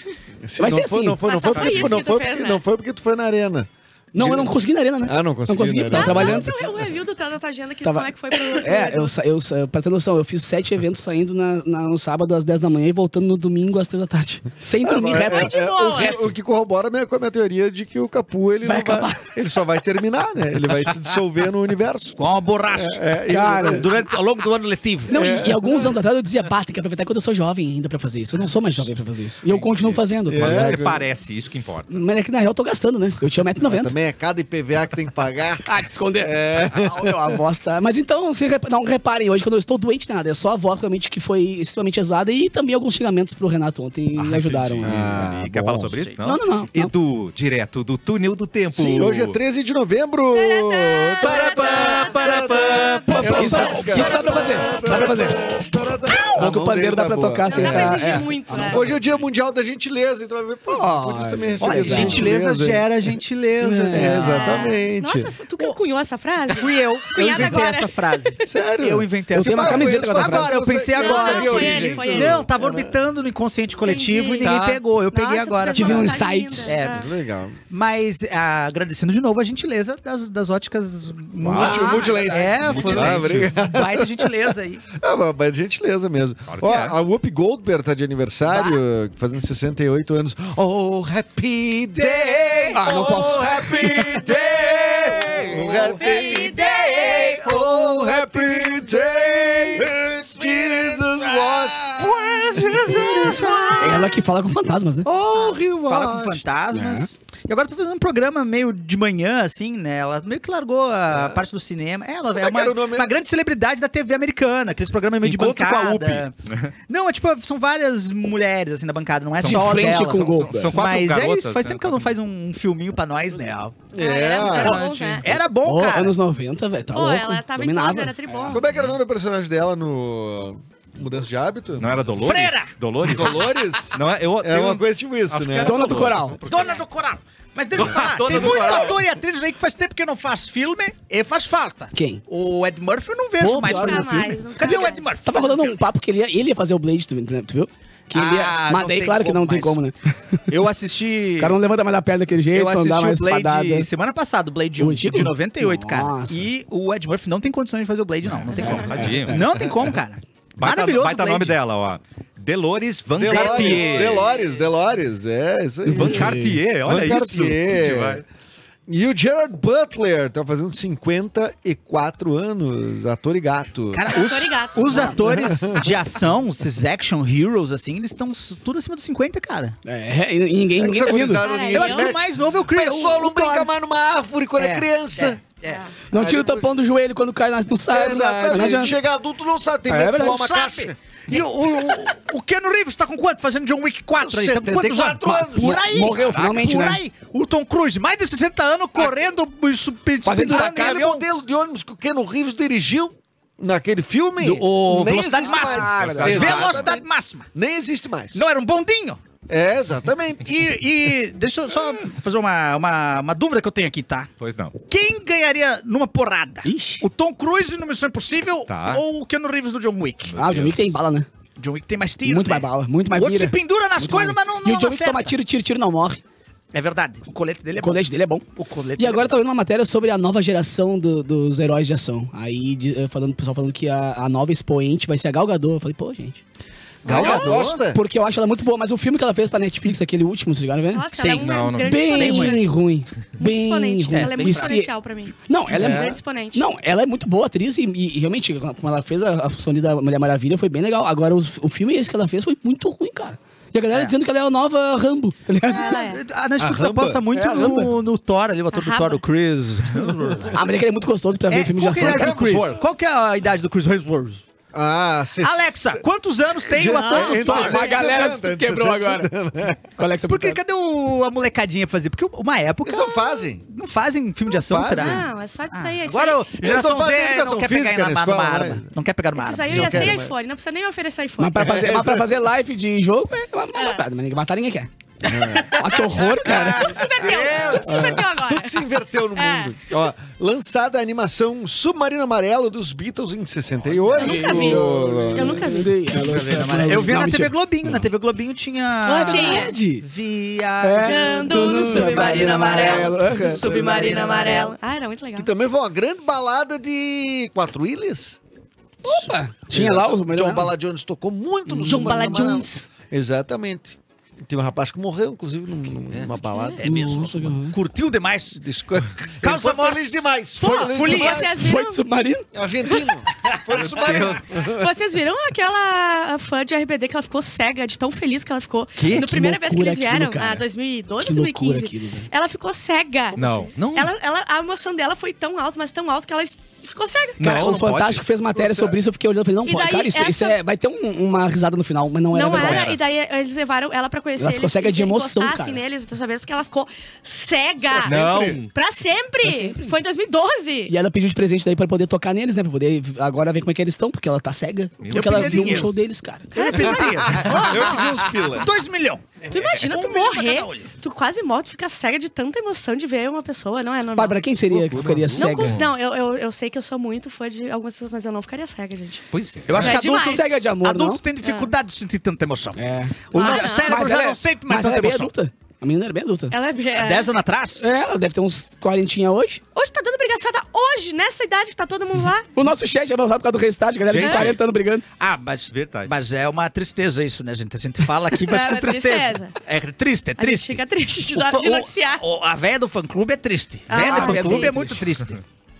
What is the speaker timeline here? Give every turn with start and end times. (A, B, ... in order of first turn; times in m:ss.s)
0:00.4-0:06.8 A
0:00.6-0:01.2 B
0:01.2-0:02.6 C
0:01.5-0:02.0 D
0:04.1-0:06.5 B
0:05.9-0:09.1 C
0:07.8-0:15.8 B
0:14.8-0:23.9 A
0:15.2-0:16.3 C
0:18.6-0:19.2 B
0:22.2-0:25.1 E
0:23.3-0:23.9 B
0:25.1-0:25.9 A
0:25.1-0:30.8 B
0:29.5-0:32.0 D
0:30.3-0:31.0 A
0:31.9-0:33.9 B
0:33.7-0:37.3 A
0:35.6-0:45.3 B
0:44.2-0:49.4 D
0:44.8-0:46.0 A
0:46.2-0:46.9 B
0:48.7-1:02.9 A
0:50.3-0:53.2 C
0:51.2-0:54.1 D
0:53.2-0:54.2 E
0:53.3-0:55.4 B
0:54.0-0:54.4 C
0:56.1-0:59.0 B
0:57.4-0:58.9 C
1:00.7-1:02.3 B
1:01.6-1:04.7 E
1:03.6-1:04.2 B
1:03.9-1:05.3 A
1:04.2-1:08.5 C
1:06.5-1:17.1 E
1:08.4-1:12.9 A
1:09.3-1:10.7 B
1:10.9-1:12.5 C
1:13.8-1:14.6 C
1:14.4-1:14.8 D
1:15.1-1:17.1 C
1:15.7-1:16.7 B
1:16.9-1:17.6 A
1:17.7-1:24.8 E
1:21.4-1:23.7 D
1:21.5-1:32.8 A
1:21.6-1:22.9 B
1:26.5-1:27.0 D
1:32.0-1:33.3 E
1:32.7-1:34.1 B
1:32.8-1:36.0 D
1:33.4-1:43.8 A
1:35.2-1:37.6 E
1:35.9-1:37.3 C
1:37.8-1:39.9 D
1:40.2-1:44.2 E
1:42.6-1:43.1 D
1:43.1-1:44.1 C
1:43.8-1:45.1 B
1:45.0-1:46.5 A
1:45.3-1:56.3 E
1:46.7-1:47.1 B
1:51.1-1:51.4 A
1:52.3-1:53.1 A
1:55.2-1:56.7 D
1:56.9-2:03.8 E
1:59.4-2:02.0 D
1:59.4-2:00.8 B
2:03.9-2:04.9 A
2:04.0-2:05.2 C
2:04.4-2:05.4 D
2:05.2-2:06.1 E
2:05.6-2:08.5 B
2:06.9-2:08.6 C
2:08.5-2:12.1 A
2:08.6-2:09.0 D
2:11.8-2:16.8 D
2:12.2-2:13.4 E
2:13.0-2:16.0 A
2:15.6-2:16.4 B
2:16.4-2:25.8 E
2:17.7-2:19.1 D
2:21.9-2:22.2 B
2:23.4-2:30.4 B
2:23.6-2:25.1 C
2:28.1-2:29.8 E
2:30.5-2:31.6 E
2:31.4-2:33.9 B
2:32.5-2:41.6 E
2:34.8-2:36.5 B
2:38.2-2:39.4 D
2:38.5-2:39.5 B
2:40.6-2:44.4 D
2:43.1-2:48.2 A
2:43.3-2:44.1 E
2:45.8-2:46.5 B
2:45.9-2:48.2 D
2:48.9-2:54.1 A
2:53.9-2:59.8 E
2:54.1-2:55.1 C
2:54.9-2:56.0 A
2:54.9-2:55.2 B
2:59.8-3:01.4 B
3:00.7-3:05.4 A
3:01.4-3:02.1 C
3:01.6-3:03.7 E
3:04.6-3:05.9 E
3:05.7-3:05.9 C
3:06.1-3:09.0 B
3:06.1-3:06.7 A
3:07.9-3:12.0 A
3:08.5-3:08.8 E
3:09.9-3:10.4 B
3:10.1-3:21.2 E
3:14.2-3:15.9 A
3:15.6-3:17.0 B
3:16.2-3:16.5 D
3:20.2-3:20.8 B
3:20.4-3:27.0 A
3:24.4-3:27.5 E
3:25.4-3:26.4 B
3:26.0-3:27.0 D
3:27.5-3:28.4 A
3:28.3-3:29.2 E
3:29.5-3:30.5 A
3:30.4-3:34.3 E
3:34.4-3:34.7 D
3:34.9-3:40.3 E
3:36.6-3:37.0 B
3:38.7-3:39.0 D
3:40.3-3:41.0 D
3:40.4-3:41.3 B
3:41.6-3:45.3 E
3:42.2-3:46.2 B
3:46.7-3:48.0 E
3:47.8-3:48.4 B
3:48.6-3:49.3 E
3:49.0-3:56.4 B
3:57.0-3:58.0 A
3:57.0-3:57.8 E
3:57.1-4:01.1 B
4:00.9-4:02.7 C
4:01.1-4:01.5 E
4:01.4-4:02.1 D
4:01.8-4:04.9 B
4:02.0-4:02.6 E
4:03.4-4:06.6 C
4:04.0-4:04.7 E
4:05.4-4:16.0 B
4:05.7-4:06.2 A
4:15.6-4:16.2 C
4:16.0-4:20.6 E
4:16.6-4:17.2 A
4:17.3-4:17.9 B
4:18.7-4:19.2 C
4:20.5-4:22.7 B
4:21.5-4:24.4 E
4:21.9-4:22.8 A
4:24.7-4:26.0 A
4:25.4-4:27.8 E
4:26.6-4:29.9 A
4:26.8-4:28.1 C
4:27.4-4:29.3 B
4:30.0-4:30.6 B
4:30.3-4:40.2 E
4:32.8-4:33.6 A
4:34.6-4:35.3 A
4:34.9-4:36.4 C
4:36.6-4:38.9 A
4:39.4-4:42.0 C
4:39.7-4:40.3 A
4:41.4-4:44.9 B
4:41.6-4:42.3 A
4:43.7-4:44.0 C
4:45.2-4:45.9 A
4:45.3-4:48.1 E
4:45.5-4:47.0 B
4:46.4-4:49.7 C
4:47.7-4:55.8 A
4:53.9-4:54.2 D
4:54.2-4:56.0 C
4:54.2-4:57.5 B
4:56.2-4:57.1 D
4:56.3-5:04.8 E
4:59.0-4:59.7 C
4:59.0-5:00.0 B
5:00.8-5:03.7 B
5:01.0-5:05.5 C
5:03.9-5:04.2 A
5:05.4-5:08.4 A
5:09.0-5:10.7 B
5:09.7-5:16.8 A
5:11.7-5:12.4 B
5:11.8-5:12.9 C
5:16.4-5:16.8 C
5:16.8-5:18.6 E
5:16.8-5:17.8 B
5:18.5-5:21.6 A
5:19.4-5:20.3 E
5:20.6-5:22.0 C
5:20.6-5:22.5 B
5:20.9-5:21.4 E
5:22.5-5:24.9 A
5:23.7-5:24.4 D
5:24.6-5:37.4 C
5:29.0-5:29.3 D
5:29.1-5:30.6 B
5:31.2-5:32.3 B
5:33.3-5:33.7 A
5:33.4-5:34.1 D
5:37.4-5:38.8 D
5:37.4-5:43.0 B
5:39.6-5:40.6 C
5:42.3-5:50.9 C
5:42.5-5:43.0 D
5:44.4-5:45.8 B
5:47.9-5:48.6 A
5:48.0-5:48.7 D
5:49.4-5:50.0 B
5:50.9-5:57.0 B
5:55.0-5:55.9 D
5:55.1-5:55.9 E
5:56.5-5:58.3 C
5:56.6-6:00.9 E
5:57.2-5:58.7 A
5:59.5-6:04.4 C
6:04.1-6:05.8 B
6:04.7-6:05.9 D
6:05.4-6:09.2 C
6:09.3-6:10.0 D
6:09.7-6:12.8 E
6:09.8-6:10.5 C
6:09.8-6:11.2 B
6:11.4-6:11.7 C
6:12.8-6:16.5 B
6:13.3-6:15.3 E
6:13.3-6:14.0 C
6:16.5-6:17.3 C
6:16.9-6:17.8 E
6:17.8-6:19.6 B
6:19.7-6:22.5 C
6:22.5-6:25.0 B
6:24.1-6:24.6 D
6:25.2-6:30.8 E
6:25.7-6:26.1 D
6:28.4-6:29.5 C
6:30.4-6:32.2 C
6:31.3-6:35.4 E
6:33.9-6:34.7 C
6:34.0-6:35.0 B